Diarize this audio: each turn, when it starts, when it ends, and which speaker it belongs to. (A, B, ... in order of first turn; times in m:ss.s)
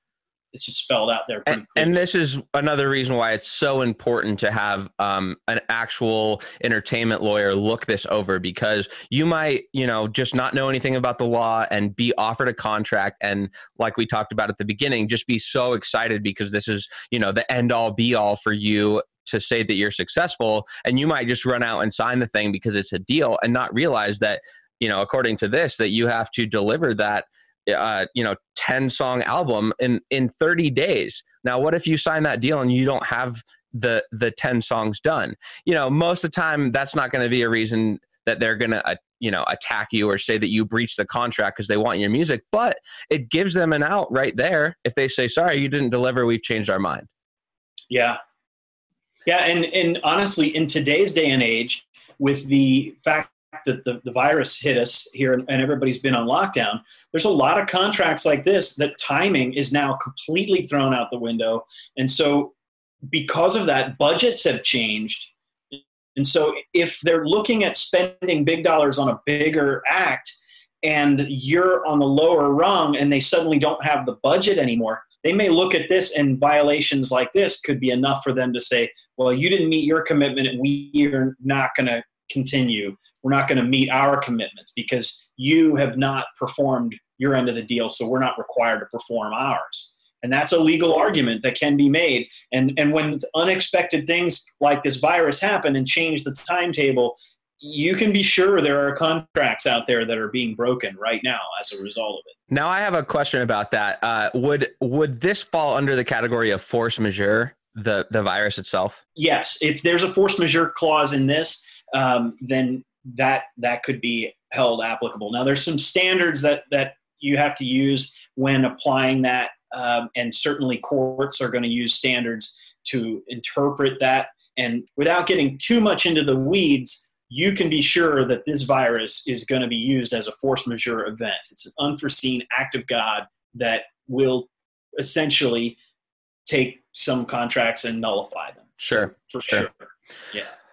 0:00.5-0:02.0 A
0:01.5-0:47.1 B
0:47.9-0:48.2 A
0:49.3-1:02.5 A
1:03.1-1:42.4 A
1:42.5-1:49.0 B
1:49.2-2:15.8 A
2:16.5-2:20.5 A
2:18.8-2:19.7 B